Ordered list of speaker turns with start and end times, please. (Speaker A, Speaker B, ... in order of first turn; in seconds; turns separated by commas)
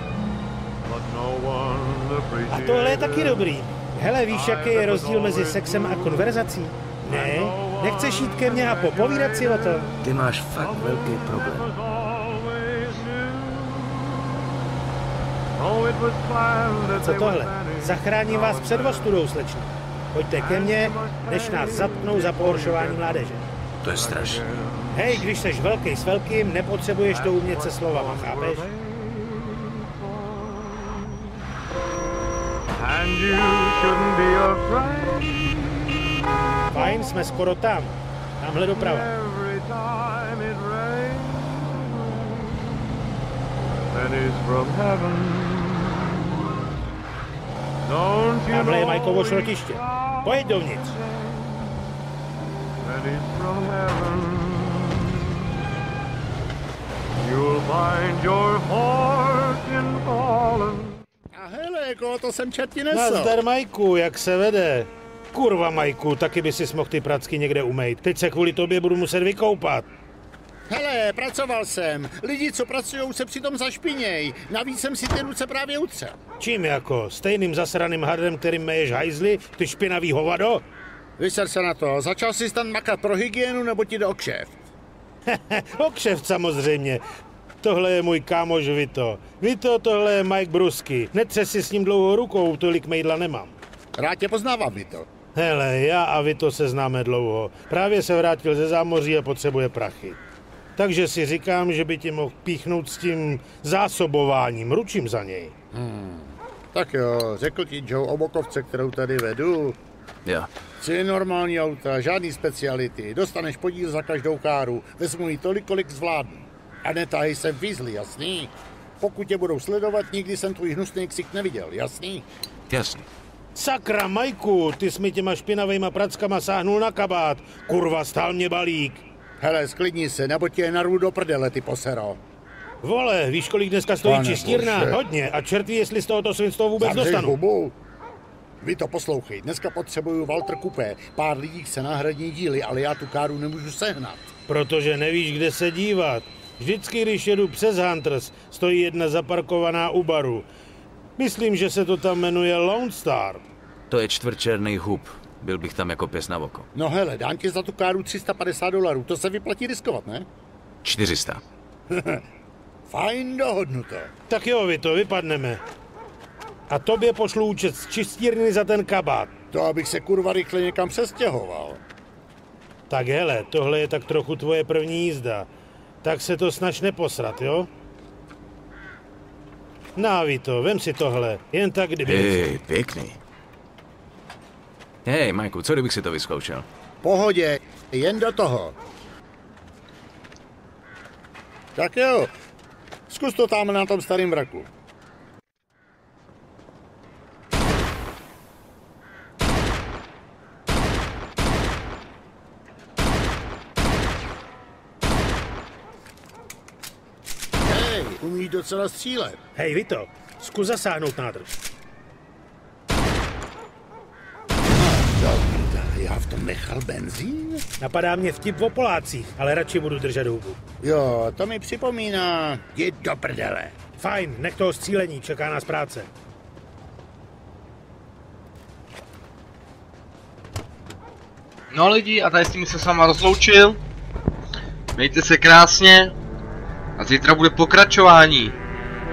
Speaker A: 0.8-3.6, Speaker B: 2.5-9.9, Speaker A: 4.3-14.6, Speaker C: 10.0-11.7, Speaker A: 15.6-19.1, Speaker B: 17.0-23.4, Speaker A: 20.3-25.3, Speaker C: 23.8-24.4, Speaker B: 24.9-28.7, Speaker A: 27.1-31.4, Speaker A: 32.8-37.5, Speaker B: 36.7-39.1, Speaker A: 38.7-42.9, Speaker A: 43.9-46.5, Speaker A: 47.8-51.9, Speaker B: 48.5-50.9, Speaker A: 52.8-55.5, Speaker A: 57.2-61.0, Speaker D: 61.3-63.4, Speaker B: 62.9-69.9, Speaker D: 70.7-76.2, Speaker B: 76.4-80.7, Speaker D: 81.2-84.5, Speaker B: 85.3-87.0, Speaker B: 87.6-93.6, Speaker D: 94.0-95.1, Speaker B: 95.3-100.2, Speaker B: 100.8-105.5, Speaker D: 105.7-109.8, Speaker D: 110.8-122.2, Speaker C: 122.7-123.0, Speaker B: 123.5-129.0, Speaker D: 129.4-132.2, Speaker B: 132.8-137.3, Speaker D: 134.0-135.0, Speaker D: 136.8-137.8, Speaker D: 138.6-144.3, Speaker B: 144.5-150.5, Speaker B: 151.2-153.4, Speaker C: 153.9-156.7, Speaker D: 156.8-160.3, Speaker C: 160.8-161.4, Speaker D: 161.9-162.2, Speaker D: 162.9-164.1, Speaker B: 164.3-165.6, Speaker B: 166.7-169.3, Speaker D: 169.5-171.8, Speaker B: 172.9-175.5, Speaker B: 176.0-177.7, Speaker B: 180.0-182.5, Speaker C: 182.1-183.2, Speaker C: 185.1-186.7, Speaker D: 187.0-188.7, Speaker D: 191.8-192.3, Speaker D: 193.1-194.7, Speaker D: 207.6-209.4, Speaker B: 209.6-211.6, Speaker D: 214.7-217.6, Speaker B: 217.8-220.6, Speaker D: 220.8-223.7, Speaker B: 224.0-226.1, Speaker E: 231.7-233.8, Speaker E: 234.9-236.1, Speaker E: 237.0-238.6